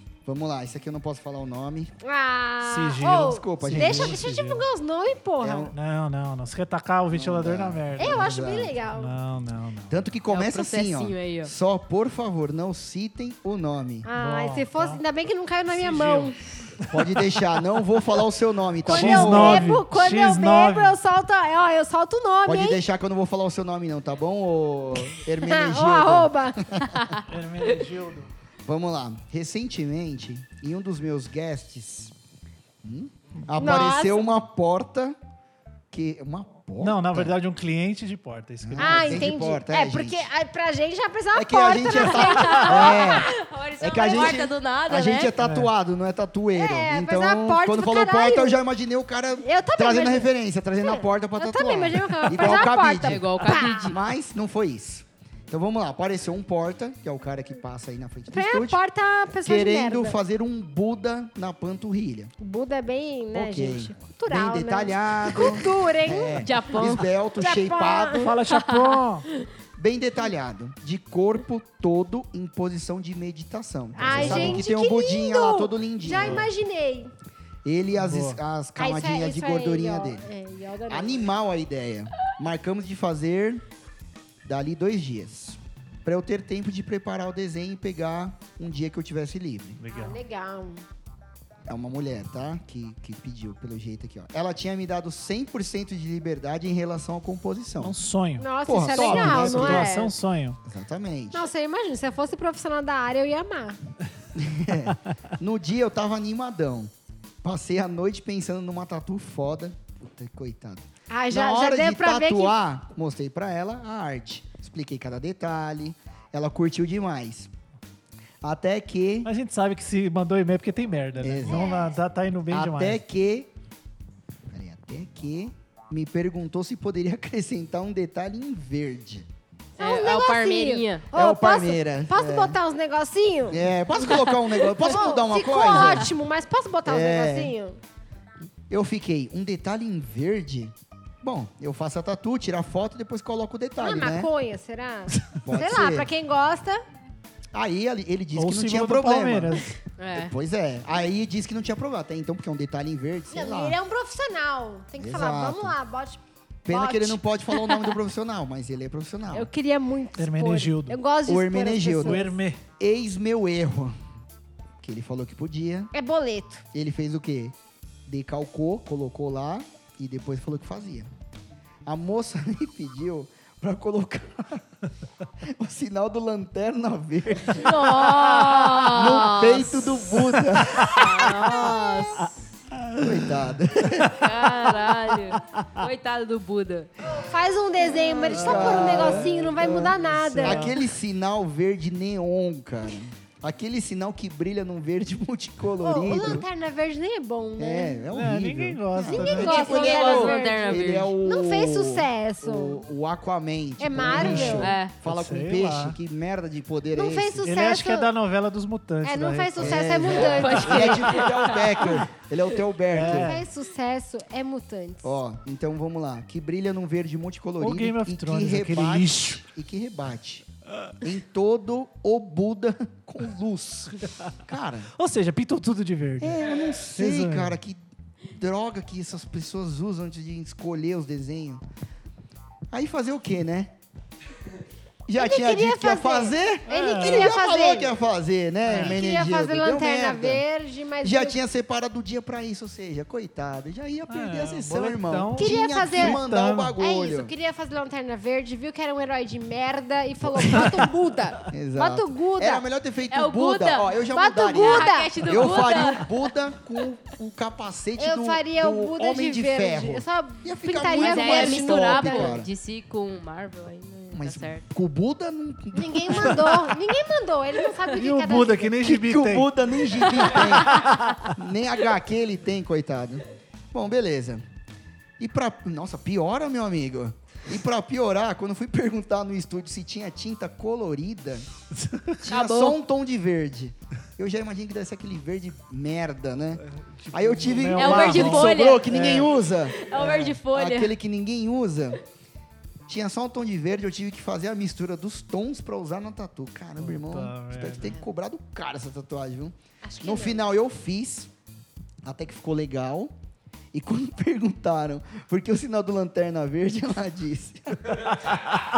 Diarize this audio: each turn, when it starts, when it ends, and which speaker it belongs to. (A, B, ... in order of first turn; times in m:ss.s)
0:00.2-0:01.9 A
0:02.0-0:05.7 B
0:02.6-0:04.6 C
0:03.2-0:04.2 A
0:05.4-0:05.8 A
0:05.7-0:08.3 C
0:07.1-0:08.8 A
0:08.0-0:09.1 B
0:08.9-0:10.0 C
0:09.9-0:14.1 A
0:10.3-0:11.5 D
0:14.0-0:16.4 B
0:14.1-0:15.0 C
0:15.7-0:16.9 C
0:16.9-0:19.7 A
0:18.8-0:22.8 B
0:18.9-0:21.0 C
0:22.5-0:27.0 A
0:25.1-0:26.7 B
0:27.3-0:28.3 C
0:28.6-0:32.1 A
0:32.8-0:35.2 A
0:33.5-0:34.2 B
0:35.9-0:37.3 A
0:36.8-0:39.3 C
0:38.6-0:40.3 A
0:38.8-0:43.4 B
0:41.3-0:58.8 A
0:42.2-0:45.3 D
0:44.1-0:44.4 B
0:45.4-0:45.7 C
0:46.5-0:48.6 B
0:49.4-0:54.0 B
0:52.2-0:54.0 D
0:58.3-1:00.2 B
0:59.4-1:02.3 A
1:02.4-1:08.4 B
1:03.3-1:08.4 A
1:06.4-1:07.1 D
1:08.2-1:09.2 C
1:08.5-1:09.0 D
1:09.8-1:16.5 A
1:14.0-1:14.7 C
1:14.0-1:17.1 B
1:17.6-1:20.2 A
1:18.0-1:18.4 C
1:18.8-1:21.3 B
1:20.9-1:23.6 A
1:24.4-1:29.8 A
1:29.8-1:30.2 C
1:29.9-1:30.8 B
1:31.7-1:38.0 A
1:37.8-1:40.6 C
1:38.4-1:40.1 B
1:38.6-1:39.9 A
1:39.6-1:40.1 D
1:40.6-1:41.5 A
1:41.3-1:43.8 B
1:44.4-1:46.9 A
1:47.4-1:57.5 A
1:51.1-1:52.6 B
1:58.4-1:59.3 A
1:59.2-2:03.0 C
2:01.2-2:01.7 A
2:01.5-2:01.9 B
2:02.5-2:03.5 A
2:04.5-2:09.3 A
2:09.8-2:17.8 B
2:09.8-2:11.1 D
2:11.1-2:12.6 A
2:13.5-2:16.1 A
2:15.7-2:16.0 D
2:16.9-2:17.5 A
2:18.7-2:24.3 A
2:23.8-2:26.8 B
2:25.3-2:26.1 A
2:27.5-2:33.8 A
2:28.4-2:29.7 C
2:30.0-2:30.3 D
2:33.3-2:37.2 B
2:35.0-2:35.8 A
2:36.6-2:39.5 A
2:37.5-2:37.9 D
2:39.3-2:42.4 B
2:40.2-2:41.0 C
2:41.2-2:42.2 A
2:42.0-2:42.6 C
2:42.8-2:44.0 A
2:44.8-2:45.9 A
2:45.9-2:46.6 B
2:46.7-2:47.6 A
2:48.1-2:51.1 A
2:51.9-2:54.6 A
2:55.4-3:01.6 A
2:57.6-3:00.1 D
3:00.4-3:01.3 C
3:00.9-3:02.4 D
3:02.2-3:04.3 C
3:03.0-3:04.3 A
3:04.1-3:06.9 D
3:05.3-3:05.7 C
3:07.1-3:10.8 B
3:08.2-3:16.5 A
3:08.3-3:10.8 C
3:15.8-3:18.0 B
3:17.6-3:27.5 A
3:18.1-3:19.6 C
3:19.0-3:22.8 B
3:19.4-3:21.1 D
3:23.8-3:24.7 B
3:24.0-3:26.0 C
3:24.6-3:24.9 D
3:26.9-3:28.1 B
3:27.4-3:30.1 C
3:29.0-3:31.2 B
3:29.6-3:33.4 A
3:30.1-3:32.0 D
3:32.9-3:33.5 C
3:33.1-3:35.2 B
3:35.0-3:40.5 A
3:37.6-3:39.4 C
3:41.0-3:44.9 A
3:45.0-3:47.6 C
3:46.2-3:47.8 A
3:48.3-3:51.6 A
3:52.7-3:53.7 A
3:55.1-4:00.4 A
3:55.2-3:58.0 B
3:56.7-3:57.4 C
3:58.7-3:59.0 C
3:58.7-4:01.4 B
4:01.0-4:07.3 A
4:04.1-4:06.7 C
4:05.4-4:06.2 B
4:06.8-4:12.6 B
4:10.2-4:10.7 A
4:11.5-4:22.5 A
4:13.1-4:14.0 D
4:14.1-4:15.7 B
4:14.5-4:16.1 D
4:18.0-4:22.4 B
4:20.8-4:24.6 D
4:24.1-4:26.8 A
4:25.7-4:28.8 B
4:28.0-4:29.5 C
4:28.8-4:34.4 A
4:30.0-4:31.1 D
4:35.2-4:41.5 A
4:41.8-4:42.2 C
4:42.2-4:49.8 A
4:42.3-4:42.8 D
4:46.6-4:50.4 C
4:47.8-4:50.9 D
4:50.5-4:52.0 A
4:52.9-5:01.3 A
4:56.8-4:58.0 C
4:59.8-5:00.4 B
5:02.0-5:03.1 A
5:03.7-5:08.3 A